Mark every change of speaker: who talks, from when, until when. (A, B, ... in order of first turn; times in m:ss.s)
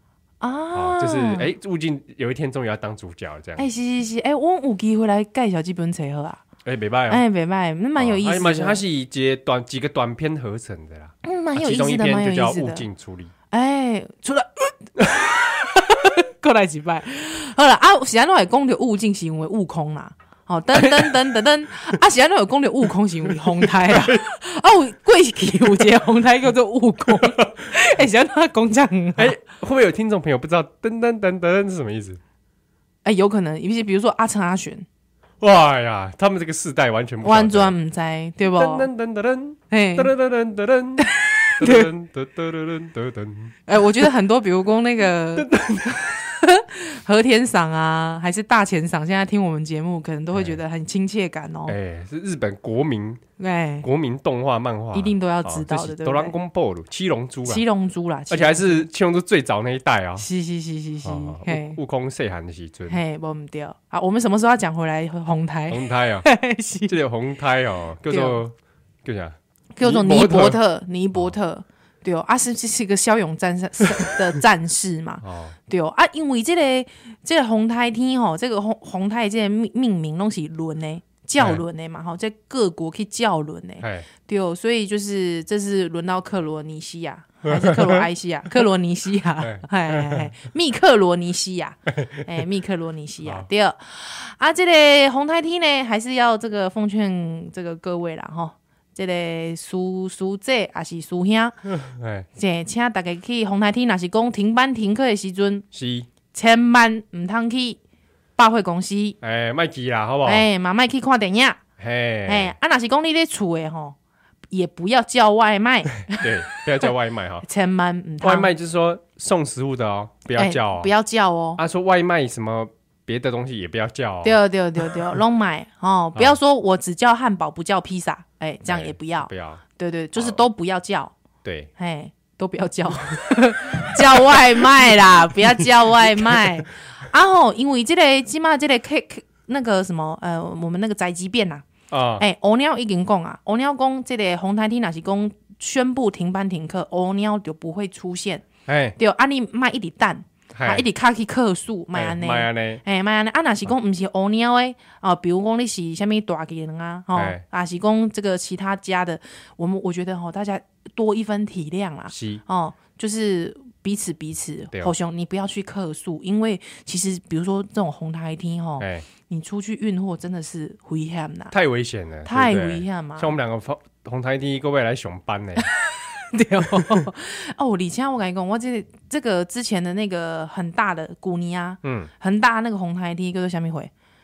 0:00.4-0:01.5 A
0:00.7-0:03.7 B
0:03.6-0:06.4 A
0:06.6-0:07.2 B
0:07.1-0:08.8 A
0:08.0-0:13.3 B
0:11.2-0:12.9 A
0:13.5-0:29.4 A
0:20.8-0:21.1 B
0:23.5-0:24.2 B
0:29.2-0:32.2 B
0:33.0-0:34.8 A
0:35.4-0:37.7 B
0:37.2-0:38.9 A
0:38.5-0:43.5 B
0:39.7-0:40.1 A
0:41.1-0:41.9 A
0:43.6-0:45.5 A
0:45.4-0:46.1 B
0:46.0-0:51.8 A
0:50.3-0:50.6 B
0:51.7-0:53.2 B
0:53.4-0:53.8 A
0:53.8-0:57.6 B
0:54.9-0:56.4 A
0:57.5-0:58.9 A
0:58.3-1:00.2 B
1:00.2-1:01.8 A
1:01.0-1:03.0 B
1:02.9-1:06.9 A
1:05.7-1:06.3 B
1:06.8-1:10.6 B
1:08.0-1:08.4 A
1:09.8-1:41.6 A
1:15.2-1:15.6 B
1:21.4-1:21.6 B
1:23.8-1:24.1 B
1:27.4-1:28.1 B
1:29.4-1:30.3 B
1:41.7-1:42.3 B
1:42.3-1:45.6 A
1:45.7-1:46.1 B
1:46.3-1:47.8 A
1:48.4-1:49.2 A
1:49.2-1:50.5 B
1:50.2-1:51.6 A
1:51.8-1:52.5 B
1:52.2-1:54.0 A
1:54.5-1:56.3 A
1:56.1-1:57.4 B
1:57.4-1:58.5 A
1:58.2-2:00.9 B
2:00.3-2:01.6 A
2:01.6-2:04.4 B
2:04.2-2:11.1 A
2:08.6-2:09.6 B
2:10.2-2:10.4 B
2:11.4-2:11.7 B
2:11.8-2:21.6 A
2:16.0-2:16.5 B
2:21.9-2:22.2 B
2:22.2-2:28.4 A
2:28.6-2:29.0 B
2:29.0-2:51.5 A
2:30.5-2:30.8 B
2:31.9-2:32.8 B
2:37.1-2:37.4 B
2:42.1-2:42.4 B
2:48.8-2:49.1 B
2:51.5-2:55.7 B
2:52.2-2:53.3 A
2:55.6-3:03.9 A
3:01.8-3:02.1 B